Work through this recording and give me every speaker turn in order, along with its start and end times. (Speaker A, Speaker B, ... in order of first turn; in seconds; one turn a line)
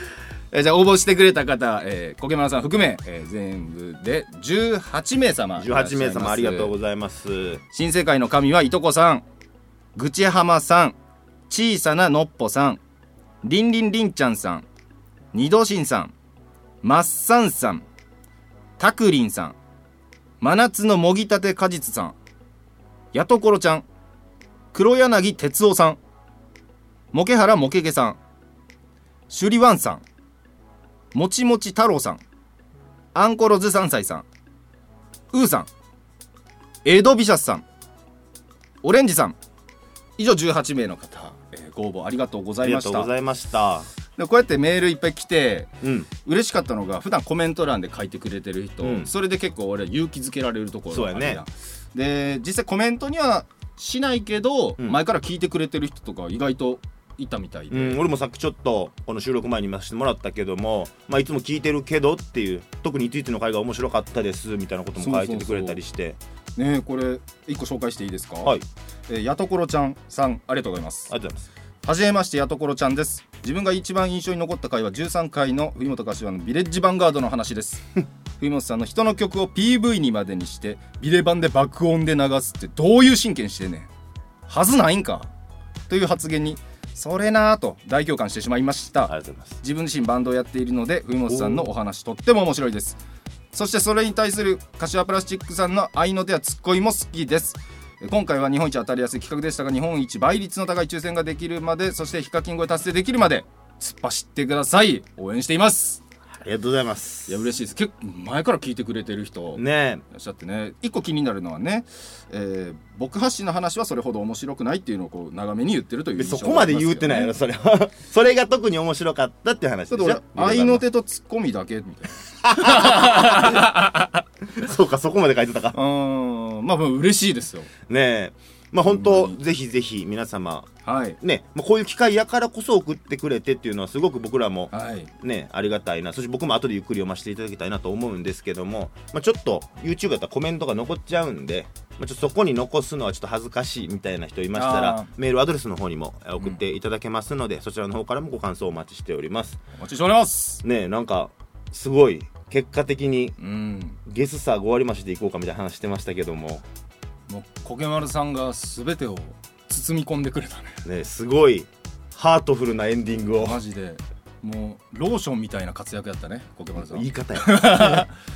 Speaker A: 0.5-6.7
Speaker B: 5.6-7.6
Speaker A: 7.7-9.2
Speaker A: 9.9-11.0
Speaker A: 11.5-12.8
Speaker A: 13.4-14.7
Speaker A: 15.3-16.1
Speaker A: 16.8-17.8
Speaker A: 18.8-19.6
Speaker A: 20.4-22.2
Speaker A: 23.1-23.9
Speaker A: 24.7-26.0
Speaker A: 27.1-28.2
Speaker A: 29.3-30.0
Speaker A: 31.1-32.2
Speaker A: 33.1-34.2
Speaker A: 35.3-35.7
Speaker A: 36.8-37.6
Speaker A: 38.8-39.4
Speaker A: 40.2-43.1
Speaker B: 42.6-43.9
Speaker A: 44.2-58.0
Speaker B: 45.8-46.1
Speaker B: 48.8-49.1
Speaker B: 50.9-51.4
Speaker B: 57.7-66.2
Speaker A: 65.0-65.8
Speaker A: 66.5-68.5
Speaker A: 69.1-71.1
Speaker B: 71.1-71.5
Speaker A: 71.8-77.8
Speaker A: 78.4-83.9
Speaker A: 84.5-85.3
Speaker A: 85.9-93.0
Speaker B: 89.1-89.6
Speaker B: 91.3-91.7
Speaker A: 93.5-106.0
Speaker B: 106.4-107.5
Speaker A: 107.3-117.3
Speaker B: 109.5-110.0
Speaker B: 116.2-120.8
Speaker A: 119.9-124.2
Speaker B: 122.4-123.7
Speaker B: 124.5-125.8
Speaker A: 125.7-127.7
Speaker B: 127.9-149.6
Speaker A: 128.8-129.4
Speaker A: 130.8-131.2
Speaker A: 134.7-135.1
Speaker A: 144.5-145.1
Speaker A: 149.8-150.6
Speaker B: 150.6-153.4
Speaker A: 153.4-154.0
Speaker B: 154.0-156.6
Speaker A: 157.3-160.8
Speaker B: 160.8-163.6
Speaker A: 163.4-168.1
Speaker B: 166.8-168.1